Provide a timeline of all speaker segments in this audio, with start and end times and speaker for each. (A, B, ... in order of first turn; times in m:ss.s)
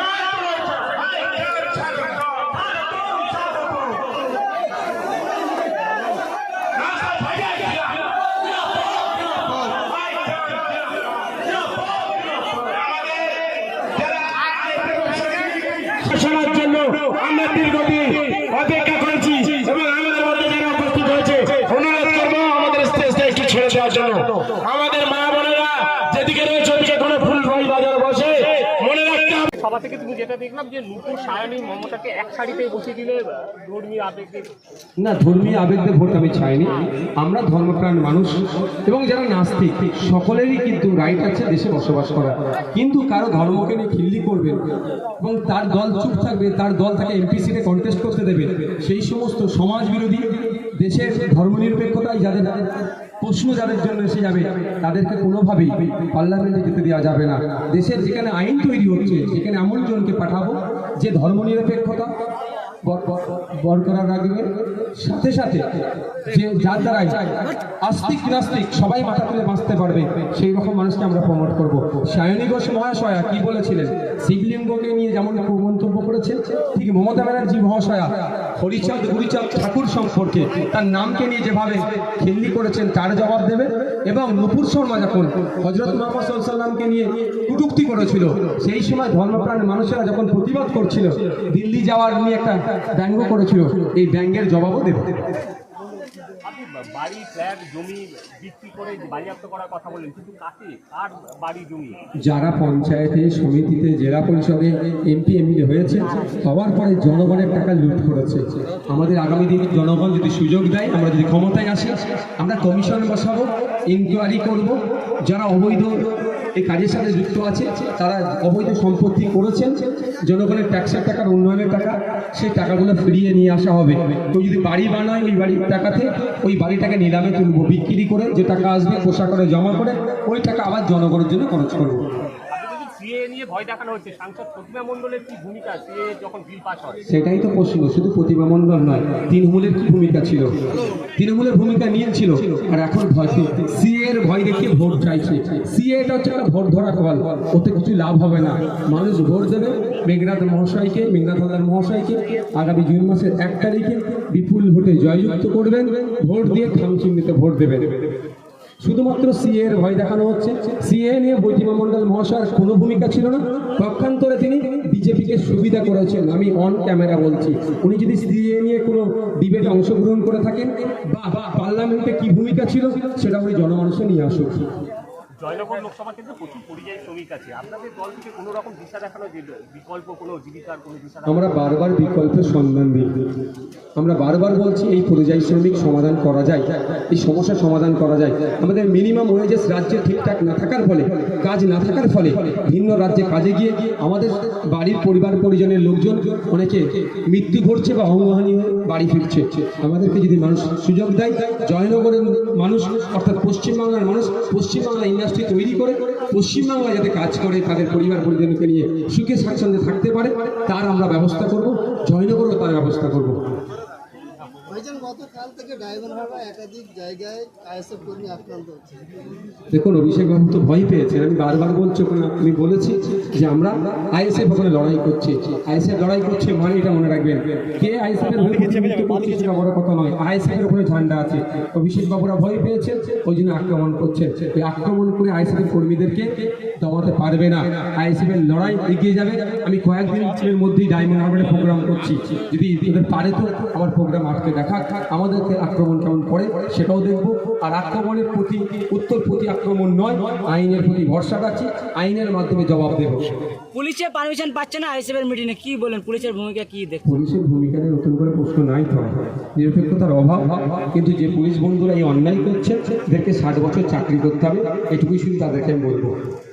0:14.9-0:29.4 A
0:29.1-0:34.5 B
0:35.0-0:44.7 C
0:45.2-1:02.1 C
1:02.8-1:35.4 C
1:36.4-1:42.0 B
1:42.2-2:12.2 C
2:12.5-2:17.0 B
2:17.1-2:38.0 C
2:38.8-2:54.7 C
2:55.4-3:01.8 B
3:01.3-3:03.2 C
3:04.0-3:33.4 C
3:34.7-3:39.2 D
3:39.7-4:13.4 C
4:13.7-4:17.1 E
4:17.0-4:26.2 C